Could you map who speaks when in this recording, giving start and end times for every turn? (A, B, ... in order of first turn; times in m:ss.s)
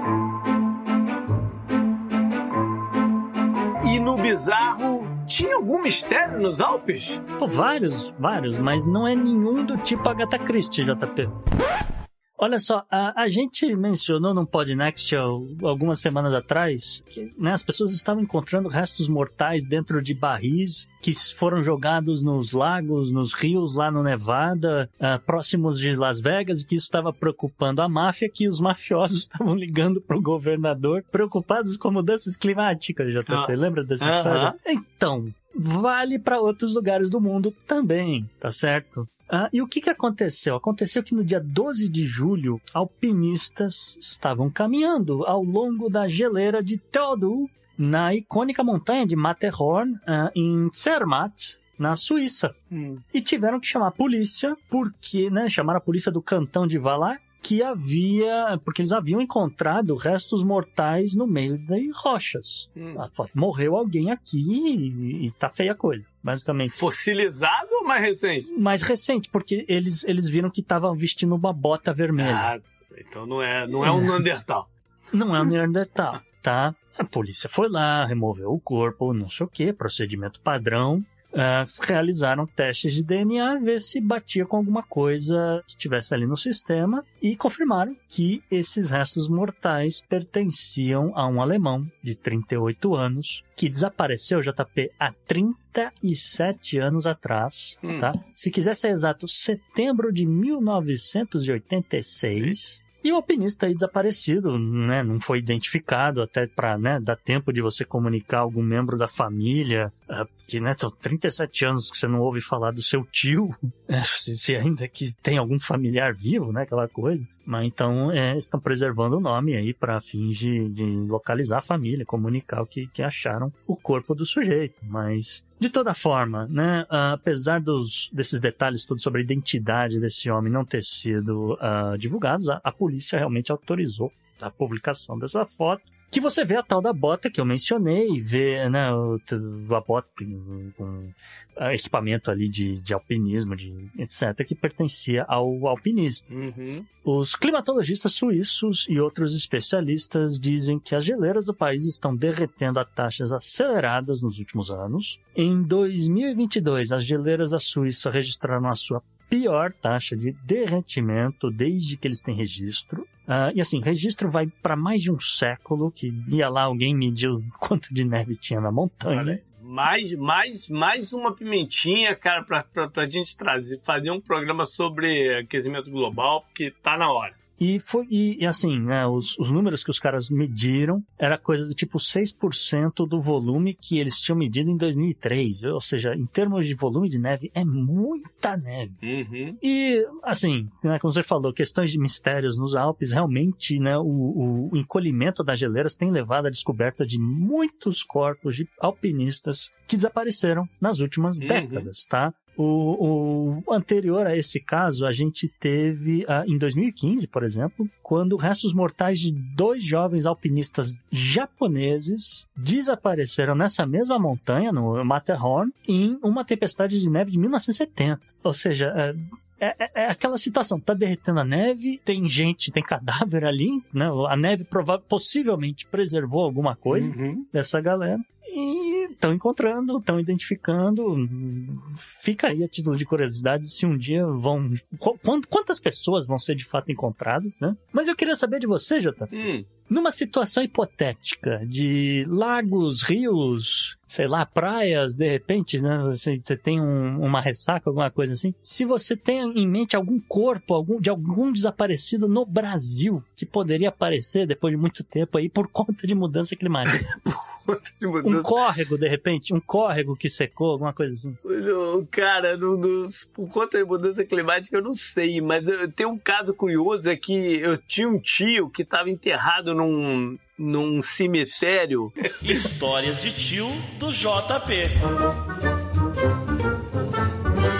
0:03.8-0:07.2 A
0:07.4-0:11.4 B
0:12.4-0:52.6 B
0:33.3-0:34.6 A
0:52.7-0:53.0 A
0:53.1-1:06.8 B
1:02.8-1:03.0 A
1:06.7-1:08.5 A
1:08.5-1:12.5 B
1:12.2-1:14.7 A
1:13.8-1:14.2 B
1:15.1-2:26.3 B
1:37.8-1:38.1 A
2:26.3-2:26.9 A
2:27.0-2:49.4 B
2:49.1-2:57.4 A
2:57.6-3:09.0 B
3:09.0-3:09.6 A
3:09.6-4:17.1 B
3:21.4-3:21.9 A
3:46.9-3:47.5 A
3:59.3-3:59.7 A
4:16.9-4:18.5 A
4:18.2-4:21.4 B
4:21.4-4:32.3 A
4:32.4-4:35.0 C